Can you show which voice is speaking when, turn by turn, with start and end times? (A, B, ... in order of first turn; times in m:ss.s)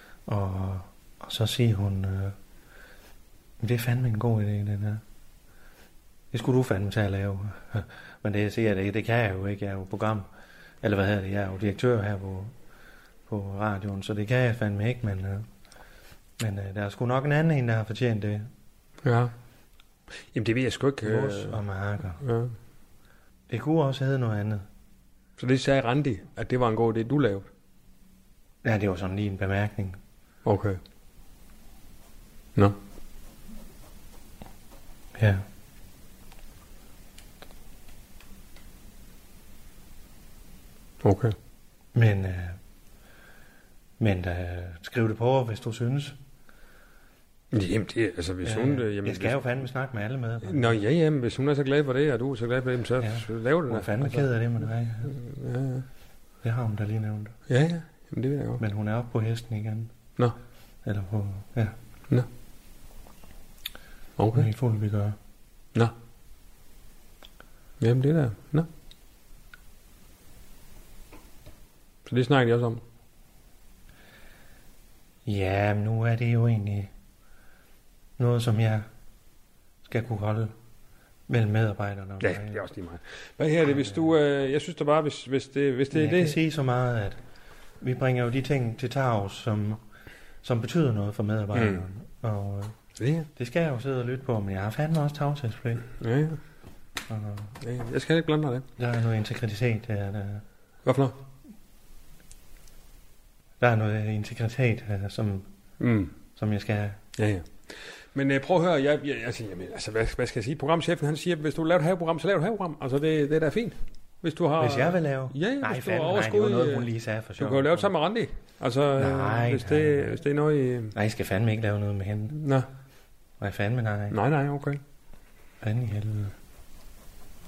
0:00.3-0:02.3 A
0:03.6-0:05.0 A
0:06.3-0:10.2 A
0:10.8-0:12.5 A
0:13.3-0:15.5 A
0:16.4-0:18.5 A
0:19.0-0:19.3 B
0:20.3-0:21.6 B
0:21.0-0:22.2 A
0:22.2-0:22.5 B
0:23.5-0:24.6 A
0:25.4-0:27.5 B
0:28.6-0:30.0 A
0:30.4-0:30.8 B
0:35.1-0:35.4 A
0:41.0-0:41.3 B
0:41.9-0:42.6 A
0:44.0-0:46.2 A
0:47.5-0:49.4 B
0:48.4-0:50.8 A
0:50.4-0:54.3 B
0:53.0-0:55.1 A
0:55.0-0:55.8 B
0:56.4-0:57.3 A
0:57.5-0:58.6 B
0:58.6-0:59.9 A
1:00.8-1:01.7 A
1:04.2-1:04.5 B
1:04.3-1:05.2 A
1:07.8-1:08.7 B
1:12.0-1:12.8 B
1:15.2-1:16.9 A
1:18.2-1:18.8 A
1:19.8-1:20.5 A
1:21.3-1:22.6 A
1:22.2-1:26.4 B
1:23.7-1:24.0 A
1:25.9-1:27.2 A
1:27.8-1:29.8 A
1:30.4-1:32.7 A
1:31.5-1:31.8 B
1:33.0-1:33.3 B
1:33.4-1:35.9 A
1:36.0-1:36.4 B
1:37.1-1:37.5 A
1:37.6-1:38.6 B
1:38.8-1:40.4 A
1:40.8-1:41.1 B
1:43.6-1:45.5 A
1:45.8-1:46.1 B
1:46.4-1:47.0 A
1:47.2-2:00.9 B
1:54.6-1:57.9 A
1:59.0-2:00.2 A
2:00.9-2:02.4 A
2:02.3-2:02.7 B
2:03.4-2:04.2 A
2:04.1-2:04.8 B
2:05.6-2:06.3 A